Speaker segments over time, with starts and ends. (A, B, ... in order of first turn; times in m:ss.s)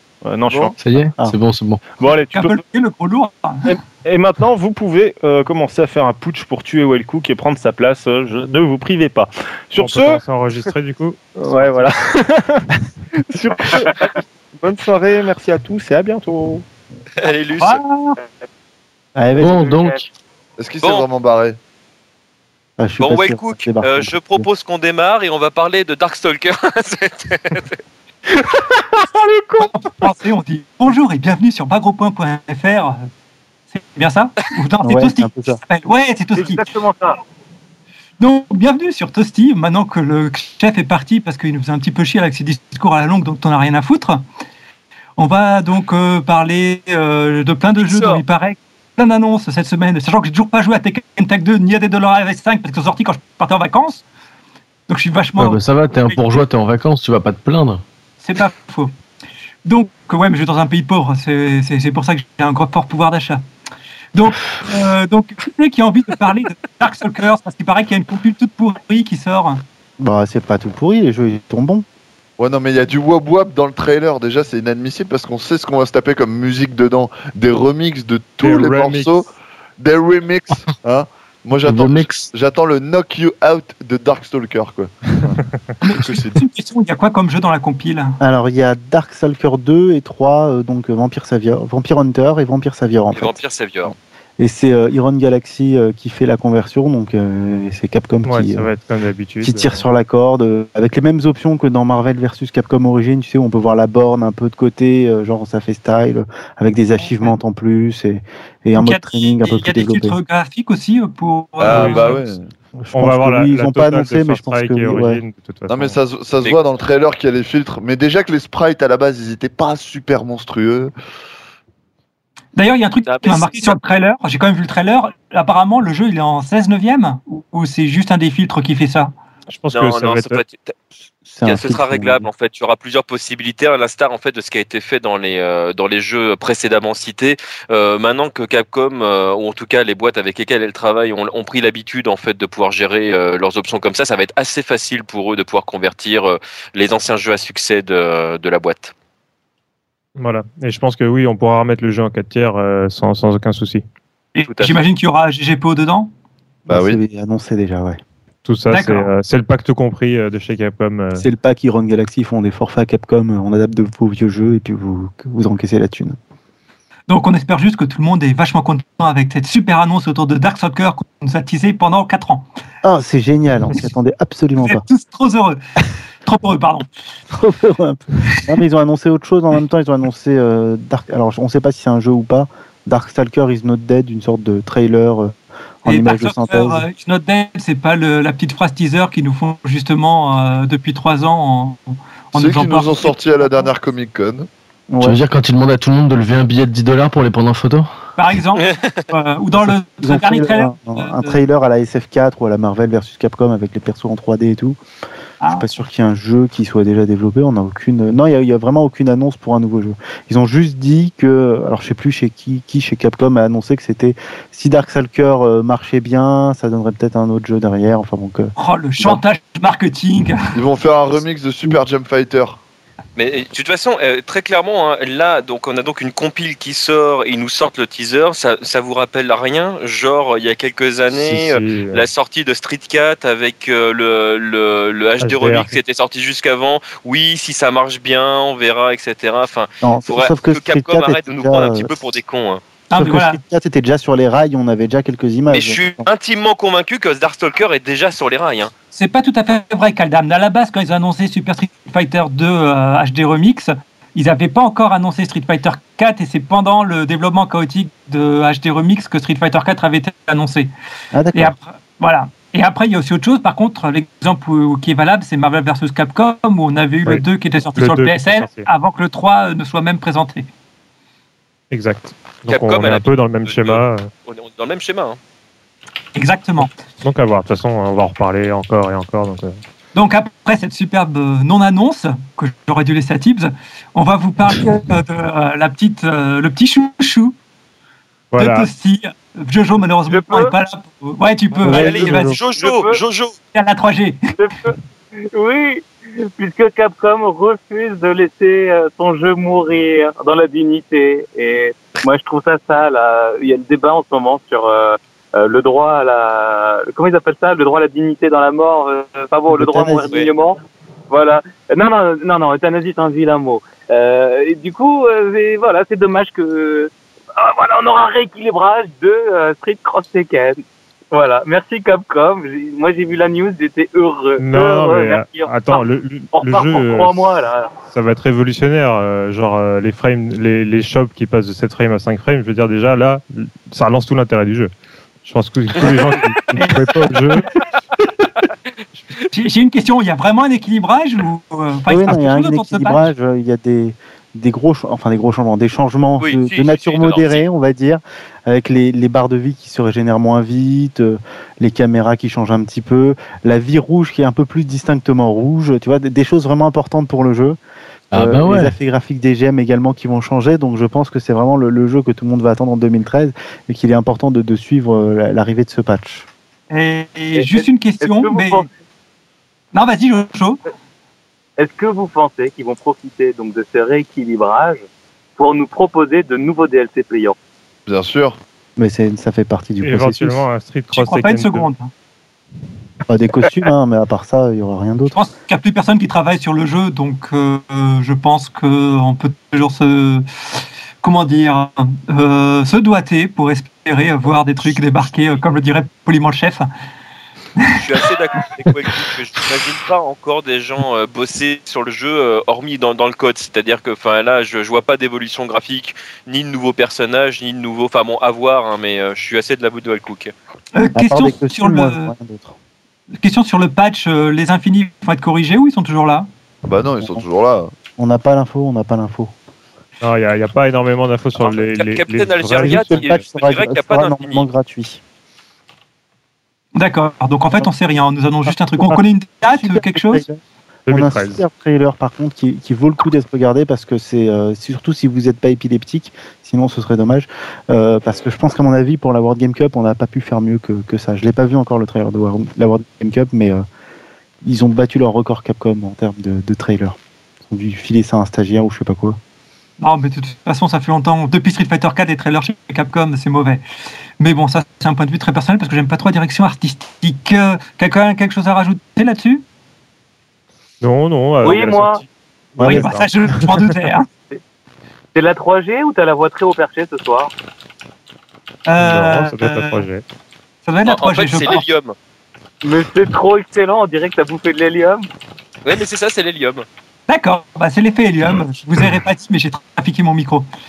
0:00.2-0:00.8 A
0:00.5-0:00.8 B
0:00.8-0:01.8 C
0:02.0-0:02.6 A
0:02.3-0:03.8 D
0:03.7-0:10.2 A
0:09.8-0:11.9 E
0:11.4-0:16.6 A
0:17.2-0:17.8 F
0:17.6-0:18.2 D
0:19.2-0:19.7 G
0:19.4-0:20.1 C
0:19.5-0:20.0 H
0:20.6-0:21.6 B
0:20.8-0:21.1 F
0:22.8-0:24.5 G
0:23.0-0:27.8 F
0:28.4-0:29.9 A
0:29.6-0:33.0 D
0:33.7-0:36.7 D
0:34.8-0:35.6 G
0:36.4-0:37.2 H
0:38.2-0:44.2 D
0:45.2-0:54.0 D
0:47.8-0:48.2 F
0:54.9-0:56.4 D
0:55.4-0:57.8 C
0:58.2-0:58.9 D
0:59.7-1:03.4 D
1:04.2-1:09.6 D
1:10.0-1:11.9 G
1:12.4-1:26.4 B
1:18.4-1:19.2 E
1:21.6-1:22.3 C
1:25.8-1:28.2 D
1:28.2-1:38.7 G
1:33.1-1:33.9 F
1:38.3-1:39.8 E
1:39.4-1:50.2 G
1:47.0-1:47.4 D
1:48.8-1:52.2 D
1:51.6-1:52.5 B
1:51.6-1:52.2 E
1:52.8-1:55.2 G
1:52.9-1:56.0 E
1:55.7-2:00.9 B
2:02.6-2:09.1 D
2:03.0-2:03.8 F
2:09.5-2:10.4 E
2:09.7-2:10.7 F
2:11.3-2:12.3 G
2:11.4-2:28.9 F
2:30.2-2:33.8 E
2:34.4-2:36.1 D
2:34.4-2:34.8 F
2:36.7-2:38.0 G
2:36.7-2:37.0 B
2:38.4-2:41.2 E
2:38.7-2:39.1 D
2:41.2-2:46.2 G
2:47.1-2:52.5 D
2:52.8-2:54.8 G
2:54.6-2:55.6 D
2:56.2-2:56.9 D
2:57.3-3:06.9 G
3:05.8-3:11.8 D
3:12.3-3:13.7 D
3:12.3-3:14.5 B
3:14.9-3:15.2 G
3:15.0-3:17.9 C
3:18.2-3:21.4 D
3:18.6-3:19.1 F
3:20.0-3:24.8 G
3:25.4-3:25.7 D
3:25.5-3:39.2 G
3:38.6-3:40.4 D
3:40.5-3:42.6 B
3:43.2-4:02.6 F
3:51.1-3:52.1 E
3:55.2-3:55.8 E
3:59.8-4:01.9 G
4:02.9-4:03.4 D
4:03.0-4:06.1 G
4:05.5-4:08.7 F
4:08.9-4:20.7 D
4:21.1-4:21.6 G
4:21.3-4:30.5 D
4:27.8-4:28.7 E
4:31.7-4:34.1 E
4:32.5-4:35.2 F
4:36.2-4:36.7 D
4:36.6-4:39.6 E
4:40.0-4:47.3 D
4:48.3-4:48.7 E
4:48.4-4:52.4 D
4:50.1-4:50.5 H
4:51.6-4:52.2 G
4:51.7-4:53.4 F
4:52.5-4:53.0 H
4:53.5-4:54.3 D
4:54.4-4:54.8 H
4:55.3-5:27.8 H
5:09.5-5:10.1 G
5:24.4-5:27.2 E
5:27.9-5:34.7 E
5:35.2-5:37.5 E
5:36.6-5:37.4 D
5:39.3-5:43.1 D
5:41.9-5:57.6 G
5:46.2-5:47.4 F
5:58.1-5:58.8 C
5:58.1-6:06.3 G
6:06.7-6:08.7 D
6:07.4-6:08.7 H
6:09.7-6:10.6 D
6:11.6-6:14.8 H
6:15.4-6:17.4 H
6:17.9-6:18.4 B
6:18.8-6:20.4 G
6:19.8-6:21.7 E
6:20.9-6:21.9 D
6:23.1-6:25.2 G
6:25.1-6:30.3 D
6:31.0-6:36.7 D
6:37.7-6:50.3 F
6:50.8-6:52.1 D
6:51.0-6:52.6 G
6:53.2-6:56.3 D
6:56.7-6:57.7 B
6:57.0-6:57.2 G
6:58.0-6:59.3 G
7:00.0-7:03.2 E
7:01.4-7:04.5 F
7:02.6-7:05.0 G
7:06.8-7:10.3 D
7:08.5-7:09.0 G
7:09.5-7:23.6 G
7:10.9-7:11.4 E
7:24.4-7:29.2 G
7:29.8-7:33.6 D
7:34.2-7:39.4 D
7:40.8-7:42.1 E
7:41.4-7:42.0 H
7:42.6-7:43.0 G
7:42.6-7:43.7 E
7:42.6-7:44.1 D
7:45.1-7:47.3 H
7:48.7-7:49.9 D
7:48.8-7:50.0 E
7:50.6-7:51.7 D
7:50.8-7:52.0 F
7:52.6-7:55.1 H
7:55.6-7:56.7 F
7:57.1-8:00.5 D